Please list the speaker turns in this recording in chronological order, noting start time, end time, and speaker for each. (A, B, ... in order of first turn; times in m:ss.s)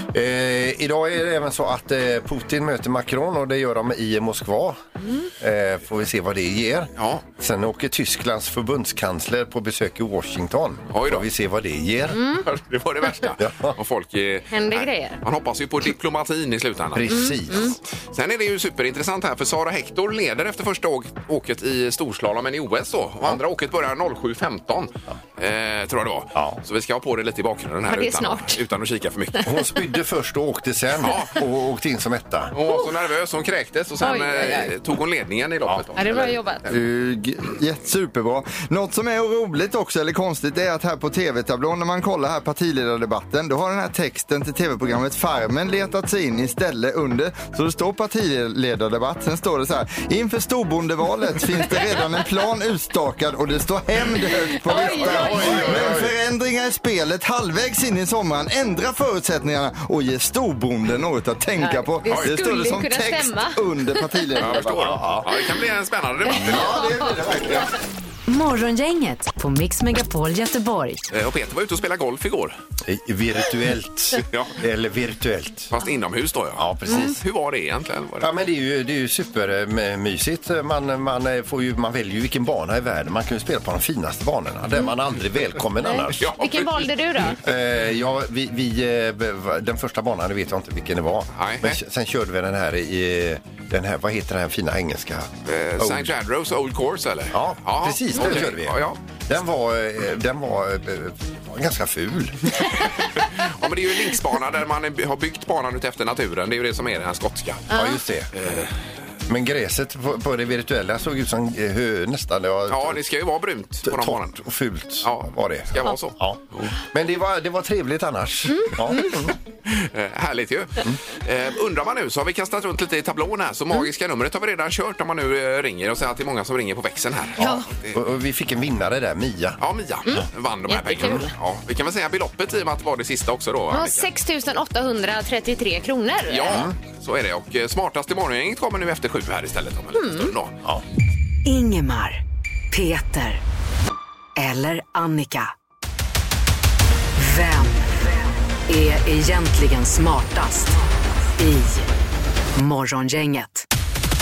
0:00.1-0:04.8 A
0:05.4-0:12.2 A
0:07.0-0:07.2 B
0:10.9-0:11.3 B
0:12.1-0:12.4 C
0:12.4-0:29.6 B
0:13.4-0:13.8 A
0:14.5-0:15.2 C
0:16.9-0:17.7 A
0:17.1-0:17.7 C
0:26.4-0:26.6 A
0:27.9-0:28.6 C
0:29.4-0:32.6 A
0:31.0-0:31.4 B
0:32.5-0:36.7 B
0:34.0-0:34.7 C
0:36.0-0:36.6 C
0:36.7-1:05.0 D
0:54.2-0:55.7 C
0:54.9-0:56.2 A
0:55.3-0:56.0 B
1:01.6-1:04.6 C
1:02.1-1:02.3 B
1:04.4-1:07.7 B
1:04.8-1:05.3 A
1:06.3-1:07.7 A
1:06.3-1:07.1 C
1:08.3-1:11.0 E
1:11.1-1:12.6 B
1:12.8-1:15.7 A
1:14.2-1:14.6 B
1:15.7-1:18.3 B
1:16.6-1:17.2 A
1:16.9-1:17.1 C
1:18.2-1:26.3 A
1:25.8-1:27.4 C
1:26.2-1:26.9 B
1:27.4-1:36.2 A
1:31.4-1:31.8 B
1:35.5-1:39.0 B
1:37.3-1:42.6 A
1:43.2-1:47.7 B
1:47.7-1:48.0 C
1:47.7-1:48.5 A
1:48.4-1:48.7 B
1:49.3-1:53.0 A
1:52.7-1:54.4 B
1:53.8-1:59.3 A
1:55.0-1:56.7 B
1:58.5-1:59.2 C
1:59.7-2:08.0 B
2:07.4-2:07.7 C
2:07.4-2:09.6 A
2:09.6-2:14.1 B
2:10.1-2:11.3 C
2:13.7-2:16.6 C
2:16.3-2:20.6 B
2:20.0-2:20.3 C
2:21.4-2:23.4 E
2:24.4-2:25.5 E
2:27.2-2:28.1 E
2:28.7-2:30.8 E
2:31.4-2:31.9 E
2:32.6-2:33.6 E